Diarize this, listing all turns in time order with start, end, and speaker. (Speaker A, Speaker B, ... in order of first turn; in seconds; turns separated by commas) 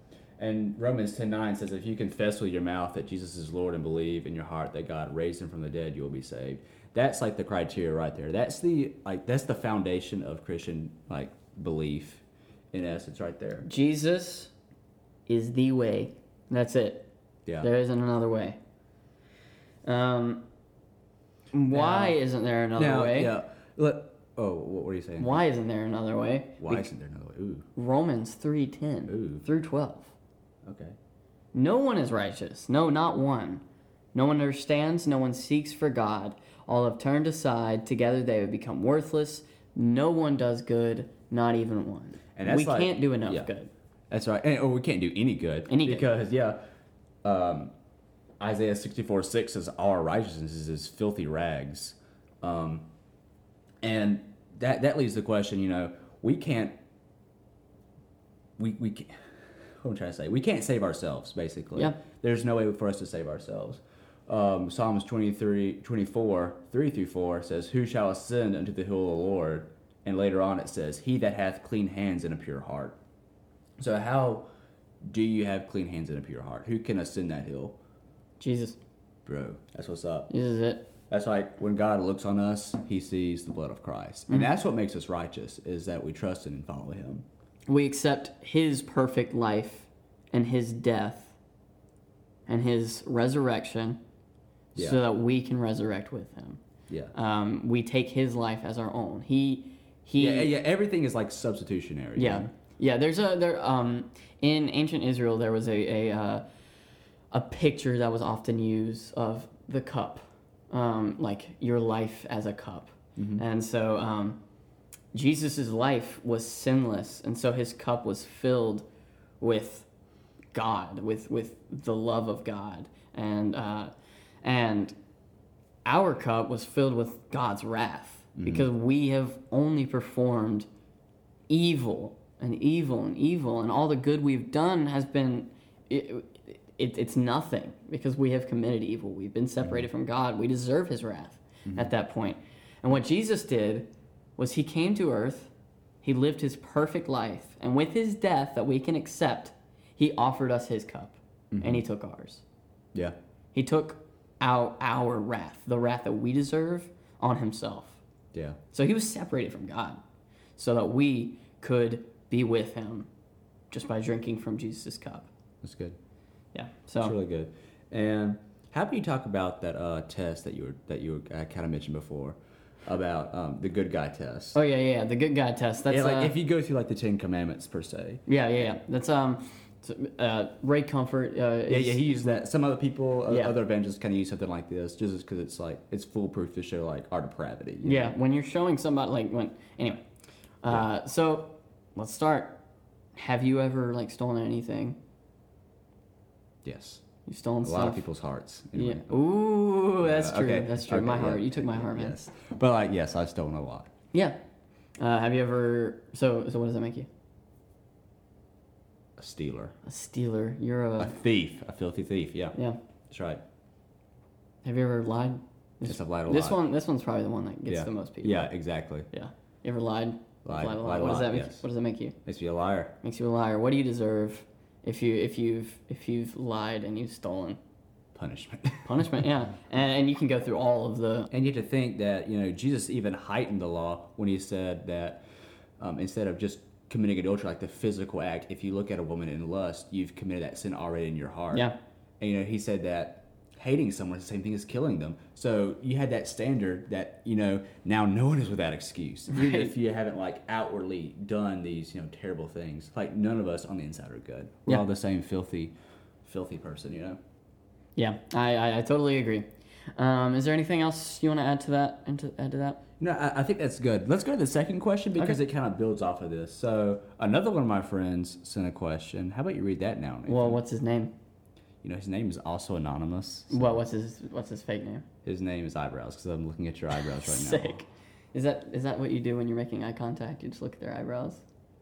Speaker A: 0.4-13.7, Speaker B: 13.6-14.5, Speaker B: 15.3-17.1, Speaker B: 17.6-18.6, Speaker B: 19.8-20.4, Speaker B: 21.5-23.3, Speaker A: 21.7-22.2, Speaker A: 22.8-25.4, Speaker B: 25.2-26.9, Speaker A: 26.6-27.7, Speaker B: 27.8-30.1, Speaker A: 29.1-29.4, Speaker A: 30.6-30.9, Speaker B: 31.5-33.6, Speaker B: 34.1-43.7, Speaker A: 42.4-43.5, Speaker A: 44.1-46.6, Speaker B: 45.7-46.1, Speaker A: 47.2-47.7, Speaker A: 48.4-52.8, Speaker A: 53.8-56.7, Speaker A: 58.6-59.2, Speaker A: 59.8-73.0, Speaker A: 73.8-74.5, Speaker A: 75.1-77.8, Speaker B: 78.4-78.8, Speaker A: 79.2-80.3, Speaker B: 80.3-80.9, Speaker A: 81.1-87.2, Speaker B: 87.7-91.3, Speaker B: 92.5-94.0, Speaker A: 94.7-95.0, Speaker B: 94.8-96.6, Speaker A: 96.9-97.1, Speaker B: 97.1-100.5, Speaker A: 100.2-102.5, Speaker B: 102.2-106.4, Speaker B: 107.3-114.4, Speaker A: 113.2-113.4, Speaker B: 115.1-118.8, Speaker B: 119.4-119.9, Speaker B: 120.5-123.9, Speaker B: 124.4-124.9, Speaker B: 125.8-130.7, Speaker A: 128.4-128.7, Speaker B: 131.5-145.5, Speaker B: 146.0-152.4, Speaker A: 151.5-151.8, Speaker B: 153.5-158.0, Speaker A: 158.3-158.6, Speaker B: 158.7-160.0, Speaker B: 160.6-163.1, Speaker B: 163.7-165.3, Speaker A: 165.6-166.0, Speaker B: 166.5-167.1, Speaker A: 167.0-174.6, Speaker B: 174.5-176.3, Speaker A: 175.9-178.7, Speaker B: 178.3-182.0, Speaker A: 181.7-188.1, Speaker B: 183.3-183.5, Speaker B: 187.8-190.0, Speaker B: 190.6-192.6, Speaker B: 193.2-195.0, Speaker A: 196.6-197.0, Speaker B: 197.2-198.1, Speaker A: 197.6-199.2, Speaker B: 198.7-202.2, Speaker A: 200.0-203.9, Speaker B: 205.0-207.1, Speaker A: 209.2-209.7, Speaker B: 209.8-211.2, Speaker A: 211.0-212.6, Speaker A: 213.1-213.4, Speaker B: 214.6-218.5, Speaker A: 215.8-216.6, Speaker A: 217.7-219.1, Speaker B: 219.1-222.2, Speaker A: 220.4-221.6, Speaker A: 222.2-222.9, Speaker B: 223.0-227.6, Speaker A: 228.1-229.2, Speaker B: 228.8-231.3, Speaker A: 231.3-235.2, Speaker A: 235.8-257.2, Speaker B: 249.3-249.7, Speaker B: 257.9-262.8, Speaker A: 263.0-270.6, Speaker B: 270.3-271.1, Speaker A: 271.8-273.8, Speaker B: 273.5-275.0, Speaker A: 275.2-277.8, Speaker B: 277.0-281.4